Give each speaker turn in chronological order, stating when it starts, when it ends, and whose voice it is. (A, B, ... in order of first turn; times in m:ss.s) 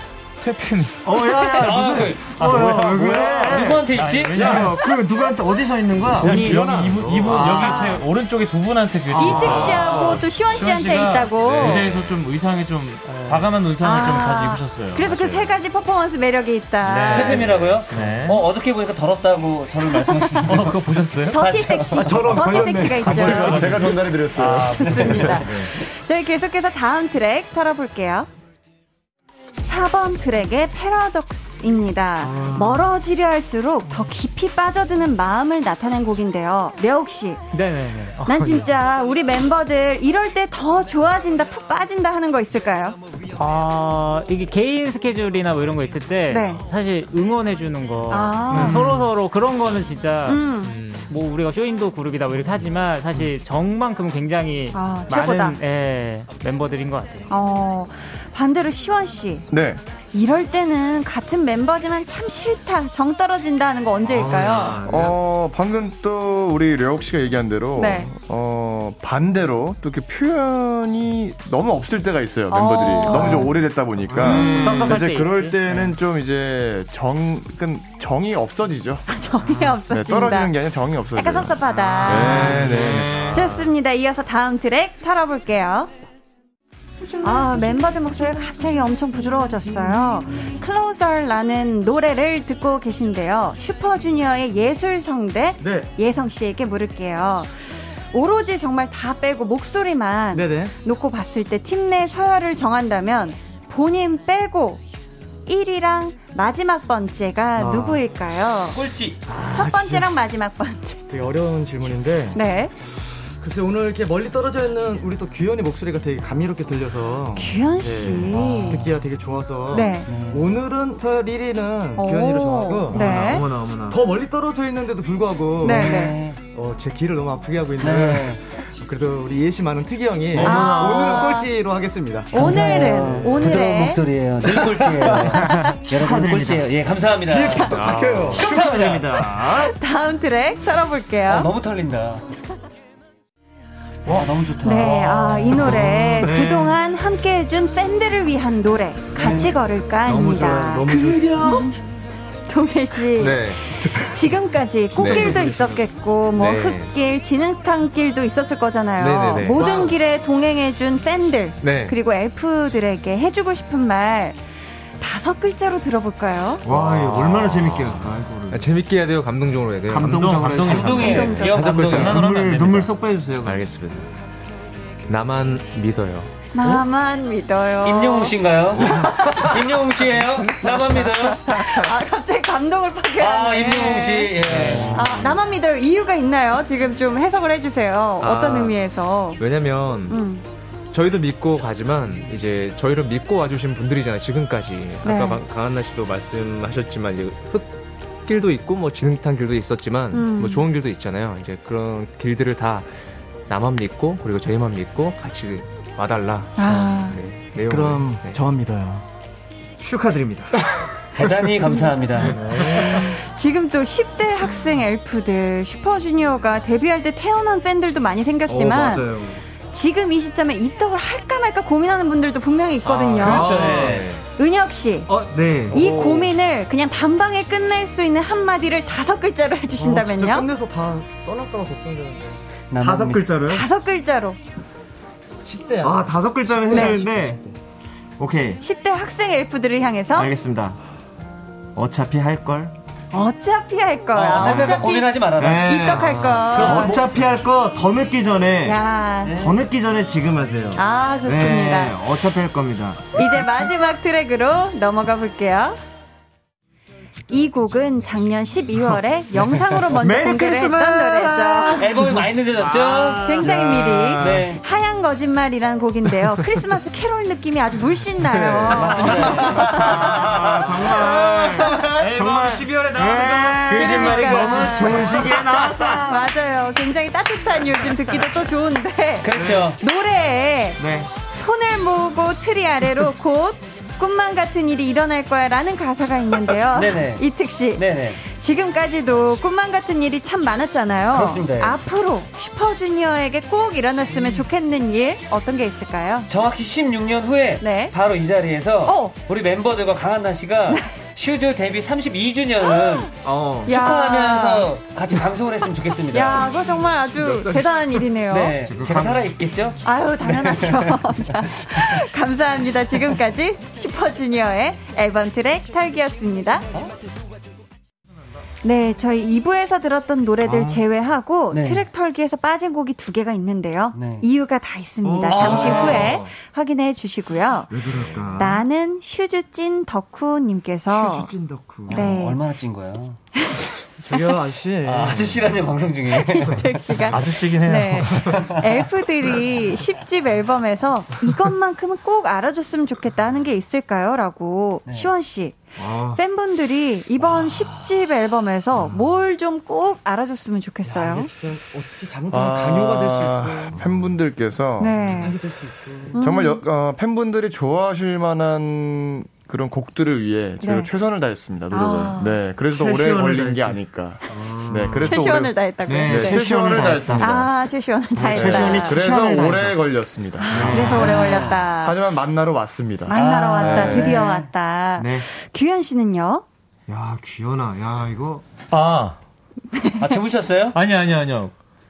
0:00.4-0:01.2 A
0:01.0-0:03.9 B
0:01.4-0:04.6 C
0:02.3-0:05.0 A
0:04.4-0:04.7 D
0:04.4-0:08.0 B
0:06.2-0:15.5 A
0:06.2-0:07.4 D
0:07.6-0:08.0 E
0:09.1-0:10.1 B
0:09.2-0:11.9 E
0:13.1-0:13.5 F
0:13.8-0:17.5 E
0:16.8-0:18.5 A
0:17.1-0:22.3 C
0:20.1-0:20.4 E
0:20.4-0:21.5 A
0:21.2-0:28.3 E
0:21.9-0:23.6 D
0:22.5-0:25.1 A
0:23.1-0:24.9 G
0:24.6-0:25.7 C
0:29.6-0:37.4 E
0:32.2-0:32.9 B
0:37.5-0:38.7 F
0:38.3-0:43.0 E
0:43.4-0:57.3 F
0:46.3-0:46.6 E
0:48.1-0:48.9 E
0:48.5-0:49.0 B
0:48.6-0:48.9 A
0:50.2-0:50.8 E
0:50.7-0:51.1 H
0:54.7-0:55.6 E
0:57.3-0:59.5 E
0:59.5-0:59.8 G
1:00.1-1:04.8 E
1:04.0-1:05.2 B
1:04.8-1:19.0 G
1:07.8-1:08.1 E
1:12.5-1:13.5 E
1:14.0-1:15.0 B
1:14.2-1:15.9 F
1:14.3-1:14.9 E
1:19.1-1:20.5 E
1:19.8-1:23.3 G
1:21.2-1:22.7 E
1:22.0-1:23.6 B
1:22.5-1:22.9 A
1:23.3-1:25.9 E
1:27.2-1:37.5 E
1:35.6-1:35.9 D
1:38.1-1:44.8 E
1:40.3-1:40.8 D
1:45.5-1:48.8 E
1:47.6-1:48.0 D
1:48.7-1:49.2 C
1:49.3-1:50.1 D
1:49.5-1:51.0 E
1:51.1-1:52.4 D
1:52.3-1:52.7 E
1:53.3-2:13.2 D
1:57.4-1:58.8 E
1:58.3-1:59.0 C
1:59.7-2:00.1 E
2:00.1-2:00.5 C
2:02.0-2:03.5 E
2:02.9-2:04.0 B
2:05.6-2:06.2 E
2:05.6-2:06.4 C
2:07.8-2:08.4 C
2:10.3-2:11.3 B
2:10.4-2:11.5 E
2:12.3-2:14.0 E
2:12.3-2:17.8 C
2:14.5-2:15.2 D
2:15.4-2:15.7 E
2:15.9-2:16.7 B
2:17.3-2:18.4 D
2:17.8-2:19.7 B
2:17.9-2:18.2 H
2:18.3-2:19.1 C
2:19.4-2:21.5 E
2:21.3-2:22.3 C
2:24.1-2:26.1 C
2:24.6-2:31.7 E
2:25.6-2:26.8 B
2:29.2-2:29.6 C
2:30.0-2:31.7 B
2:32.5-2:44.5 E
2:33.2-2:33.8 H
2:35.0-2:35.4 H
2:35.0-2:35.8 D
2:36.4-2:37.0 H
2:39.0-2:39.9 H
2:39.6-2:40.0 D
2:41.6-2:42.0 H
2:45.0-2:46.6 E
2:46.6-2:48.7 B
2:46.6-2:50.7 H
2:49.9-2:53.7 B
2:50.0-2:52.9 A
2:50.5-2:52.3 C
2:50.9-2:51.7 E
2:51.5-2:52.3 H
2:53.4-2:54.1 H
2:55.1-2:56.3 H
2:56.5-2:59.6 E
2:57.8-3:01.5 C
3:01.5-3:04.4 E
3:03.2-3:05.1 C
3:04.6-3:05.4 H
3:04.9-3:09.4 E
3:08.2-3:08.8 H
3:09.4-3:10.2 H
3:10.1-3:10.4 E
3:10.9-3:22.9 H
3:15.0-3:15.4 E
3:20.1-3:20.7 E
3:23.5-3:28.4 H
3:26.6-3:27.2 E
3:27.7-3:29.0 D
3:29.8-3:30.6 B
3:31.2-3:32.4 C
3:31.2-3:32.0 E
3:32.2-3:33.1 B
3:32.7-3:39.1 E
3:38.5-3:39.4 B
3:39.7-3:43.8 E
3:42.8-3:44.2 C
3:43.2-3:44.1 B
3:43.8-3:44.2 H
3:44.4-3:45.1 E
3:45.1-3:46.3 B
3:45.7-3:50.5 E
3:49.8-3:52.4 D
3:52.7-3:53.3 C
3:52.8-3:53.7 B
3:53.5-3:54.4 E
3:55.4-3:57.5 D
3:55.8-3:57.4 B
3:56.7-3:57.0 E
3:58.2-3:58.6 B
3:58.6-4:00.3 E
4:00.2-4:00.8 B
4:01.8-4:02.8 B
4:03.1-4:07.0 E
4:04.1-4:07.1 C
4:04.4-4:13.5 B
4:08.7-4:09.4 E
4:09.2-4:09.6 C
4:10.8-4:12.0 E
4:13.2-4:15.8 E
4:17.3-4:21.9 E
4:19.9-4:22.2 B
4:21.8-4:23.5 C
4:23.2-4:29.9 E
4:23.4-4:24.5 B
4:24.2-4:24.6 C
4:28.3-4:36.3 B
4:28.6-4:30.4 C
4:31.9-4:35.4 A
4:33.7-4:56.3 E
4:39.2-4:39.8 C
4:39.4-4:39.7 B
4:40.8-4:41.1 B
4:46.7-4:48.2 C
4:51.1-4:51.8 C
4:56.3-5:03.1 C
4:57.6-4:57.9 E
4:58.8-4:59.2 E
5:03.2-5:03.7 B
5:03.7-5:04.7 E
5:03.7-5:06.5 C
5:06.1-5:08.6 E
5:08.3-5:12.0 C
5:08.6-5:09.3 B
5:09.8-5:16.7 E
5:18.6-5:27.8 E
5:20.4-5:20.8 B
5:21.5-5:21.9 C
5:23.9-5:24.3 C
5:25.0-5:26.3 B
5:25.3-5:26.2 C
5:27.7-5:28.6 D
5:27.9-5:28.6 B
5:28.3-5:31.3 E
5:30.9-5:32.0 D
5:31.9-5:32.4 E
5:31.9-5:33.2 C
5:33.4-5:34.2 E
5:34.1-5:35.8 D
5:34.8-5:37.0 C
5:36.2-5:51.3 E
5:37.1-5:38.5 A
5:38.2-5:38.8 C
5:45.8-5:46.2 B
5:47.4-5:47.9 D
5:50.8-5:54.0 D
5:52.3-5:55.3 G
5:54.8-5:55.4 E
5:55.0-5:56.2 D
5:56.1-5:56.6 E
5:56.2-6:07.5 G
6:00.6-6:00.9 E
6:01.7-6:02.4 E
6:02.7-6:05.3 B
6:05.0-6:09.0 E
6:05.9-6:07.3 B
6:08.2-6:09.8 B
6:08.3-6:10.9 G
6:10.4-6:12.0 E
6:10.5-6:11.4 B
6:10.7-6:11.7 C
6:11.8-6:14.2 G
6:13.1-6:16.4 E
6:13.1-6:14.5 C
6:15.0-6:15.3 B
6:16.9-6:18.4 B
6:18.7-6:19.2 A
6:19.8-6:20.2 E
6:20.0-6:20.8 C
6:20.7-6:21.5 A